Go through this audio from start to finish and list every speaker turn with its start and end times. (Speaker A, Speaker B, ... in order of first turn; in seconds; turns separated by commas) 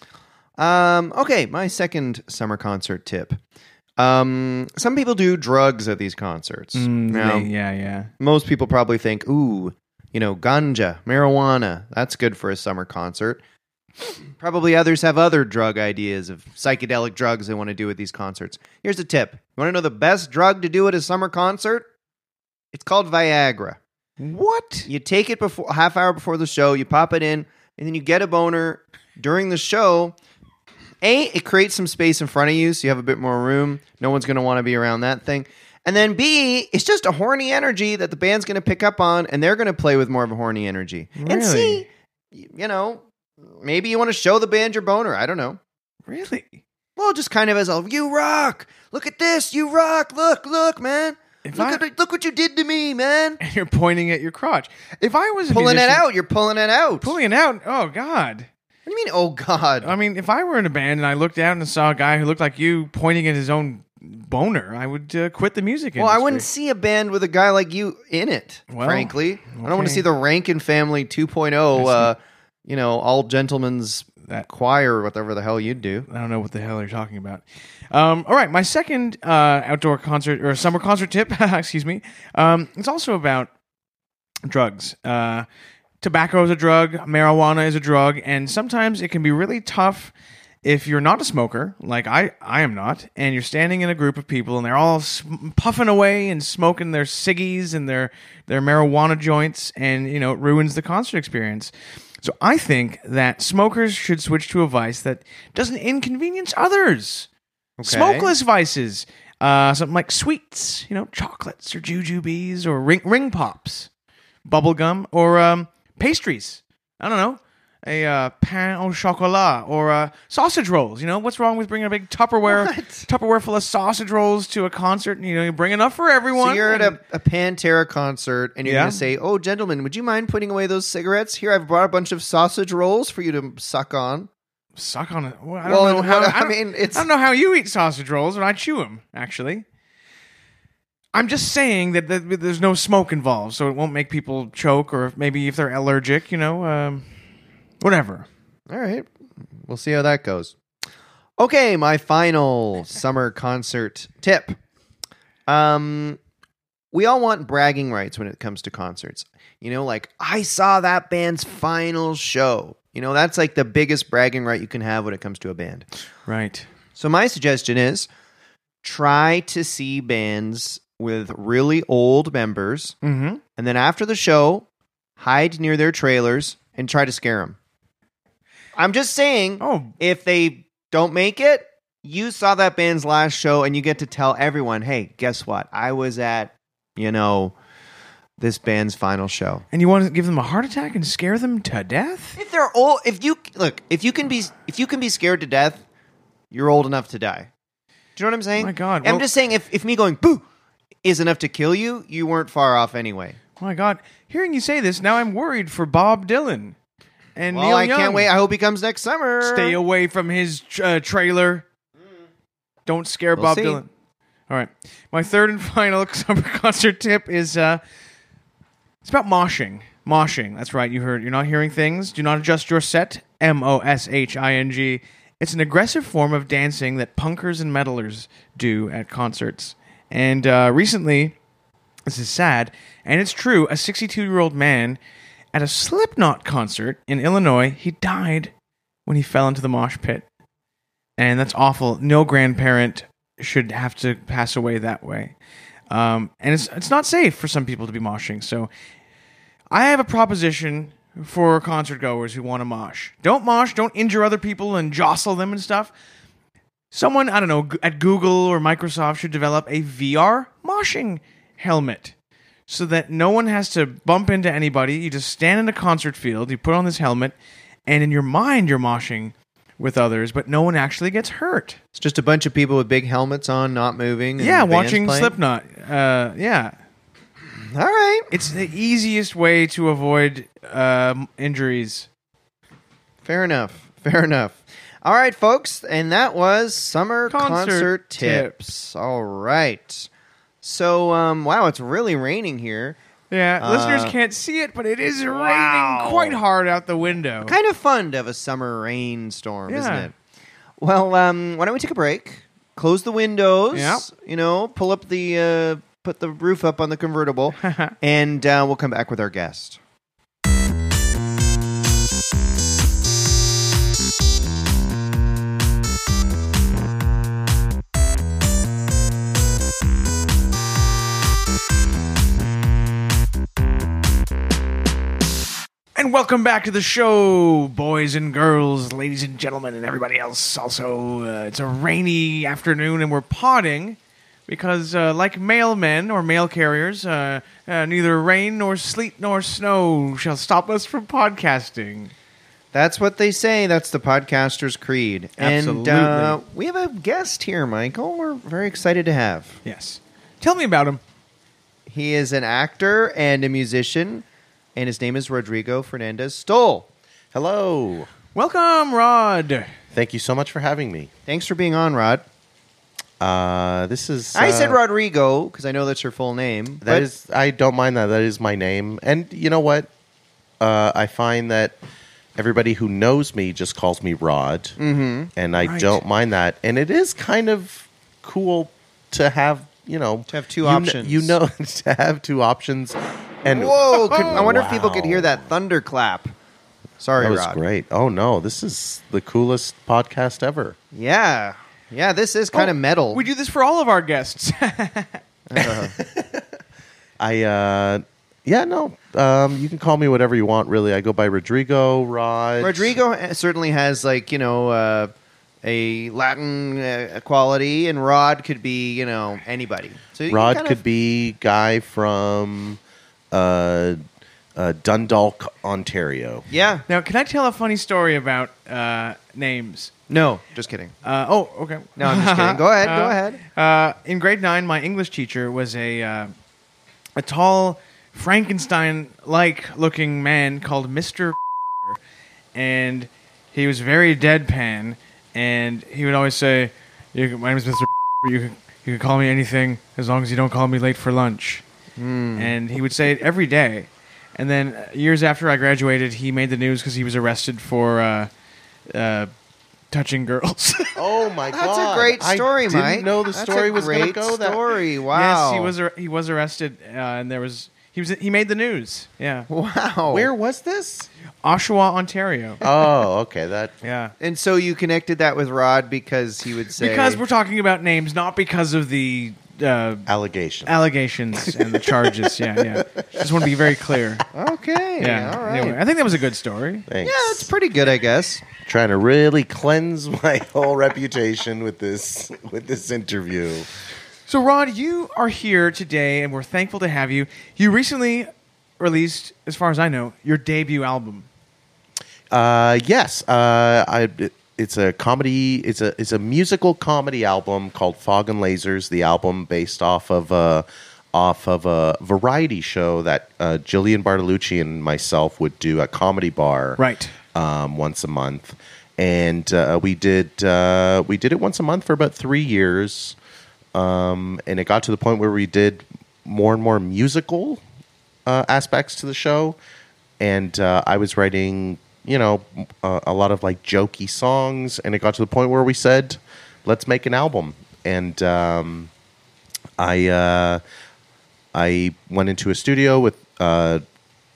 Speaker A: 0.6-3.4, Speaker A: 4.0-7.5, Speaker B: 6.8-8.1, Speaker A: 8.2-13.4, Speaker A: 14.4-21.9, Speaker A: 22.7-23.8, Speaker B: 24.2-24.9, Speaker A: 24.9-30.2, Speaker A: 31.0-45.6, Speaker B: 41.2-41.9, Speaker B: 46.1-46.6, Speaker A: 47.0-53.4, Speaker B: 51.5-51.8, Speaker B: 53.4-56.0, Speaker A: 55.5-57.2, Speaker B: 57.0-58.5, Speaker A: 58.9-59.9, Speaker B: 59.8-66.5, Speaker A: 66.0-76.1, Speaker B: 68.7-70.1, Speaker B: 71.8-72.1, Speaker B: 76.1-83.5, Speaker B: 84.5-85.5, Speaker B: 86.0-90.1, Speaker B: 90.6-107.3, Speaker A: 107.8-108.3, Speaker B: 107.8-113.9, Speaker B: 114.5-127.0, Speaker A: 122.5-123.1, Speaker A: 126.4-134.3, Speaker B: 128.7-129.0, Speaker B: 134.8-139.7, Speaker A: 135.7-137.1, Speaker B: 141.1-147.1, Speaker B: 147.8-148.3, Speaker A: 148.7-149.1, Speaker A: 149.6-150.6, Speaker A: 151.4-154.6, Speaker A: 155.5-156.2, Speaker A: 156.9-165.9, Speaker B: 166.3-166.7, Speaker A: 167.0-168.1, Speaker A: 168.8-173.0, Speaker B: 173.0-173.4, Speaker A: 173.6-174.7, Speaker A: 175.2-177.6, Speaker A: 178.8-187.5, Speaker B: 179.6-179.9, Speaker A: 188.4-189.7, Speaker B: 189.7-192.4, Speaker A: 192.4-195.8, Speaker A: 196.5-197.5, Speaker A: 198.2-200.4, Speaker B: 198.6-199.3, Speaker A: 201.0-203.4, Speaker B: 203.6-206.8, Speaker B: 207.4-208.3, Speaker A: 207.5-209.8, Speaker B: 209.4-211.7, Speaker B: 212.9-213.9, Speaker A: 213.4-213.8, Speaker B: 214.5-217.8, Speaker B: 219.0-231.4, Speaker B: 232.1-235.0, Speaker B: 235.5-238.5, Speaker B: 239.1-240.3, Speaker B: 241.2-245.3, Speaker B: 245.9-248.7, Speaker B: 249.7-255.9, Speaker B: 256.9-262.1, Speaker B: 262.7-267.4, Speaker B: 267.9-271.8, Speaker A: 271.9-275.3, Speaker B: 274.4-276.8, Speaker A: 277.6-278.3, Speaker B: 278.3-282.1, Speaker A: 283.2-290.1, Speaker B: 287.3-288.6, Speaker A: 290.6-293.0, Speaker B: 293.3-297.5, Speaker A: 293.6-294.1, Speaker A: 295.3-296.4, Speaker A: 297.4-300.1, Speaker B: 299.7-300.1, Speaker A: 300.8-309.8, Speaker B: 303.7-304.1, Speaker B: 307.6-307.9, Speaker B: 325.9-342.1, Speaker A: 342.7-349.6, Speaker B: 345.4-346.4, Speaker B: 349.6-351.0, Speaker A: 351.9-354.2, Speaker A: 354.8-356.9, Speaker C: 357.3-358.1, Speaker B: 358.4-359.7, Speaker C: 359.9-361.1, Speaker A: 361.3-362.2, Speaker C: 363.2-364.8, Speaker A: 364.3-367.1, Speaker C: 366.8-369.9, Speaker C: 370.6-371.8, Speaker C: 372.4-374.8, Speaker A: 374.8-375.3, Speaker C: 375.4-385.5, Speaker B: 375.6-376.0, Speaker A: 380.3-381.4, Speaker A: 383.4-386.3, Speaker B: 384.1-384.4, Speaker A: 387.0-387.6, Speaker C: 387.2-390.8, Speaker A: 390.9-393.2, Speaker B: 392.5-395.2, Speaker A: 395.5-396.0, Speaker C: 396.0-396.5, Speaker C: 397.2-403.0, Speaker A: 402.6-405.1, Speaker A: 405.6-410.8, Speaker C: 410.3-412.8, Speaker C: 413.3-414.0, Speaker C: 414.6-416.5, Speaker A: 416.5-416.9, Speaker B: 416.9-419.9, Speaker A: 420.1-420.9, Speaker B: 421.0-426.3, Speaker A: 422.0-423.4, Speaker B: 427.2-432.0, Speaker B: 432.6-441.6, Speaker A: 442.0-442.6, Speaker B: 442.4-448.3, Speaker B: 448.9-449.3, Speaker B: 449.9-451.0, Speaker C: 451.0-454.6, Speaker A: 451.5-455.7, Speaker B: 455.1-459.5, Speaker A: 459.5-460.3, Speaker C: 460.1-461.1, Speaker B: 461.4-462.6, Speaker C: 462.6-463.7, Speaker B: 463.8-464.1, Speaker A: 464.2-467.2, Speaker B: 466.8-470.1, Speaker C: 470.1-470.8, Speaker B: 470.7-474.2, Speaker A: 474.3-475.8, Speaker B: 475.0-476.9, Speaker C: 476.9-477.5, Speaker A: 477.0-478.4, Speaker C: 478.6-483.7, Speaker B: 484.3-491.3, Speaker C: 492.3-506.8, Speaker B: 506.8-507.1, Speaker C: 507.3-513.2, Speaker C: 513.7-517.6, Speaker C: 518.3-519.6, Speaker C: 520.2-528.9, Speaker C: 529.8-530.6, Speaker C: 531.5-533.8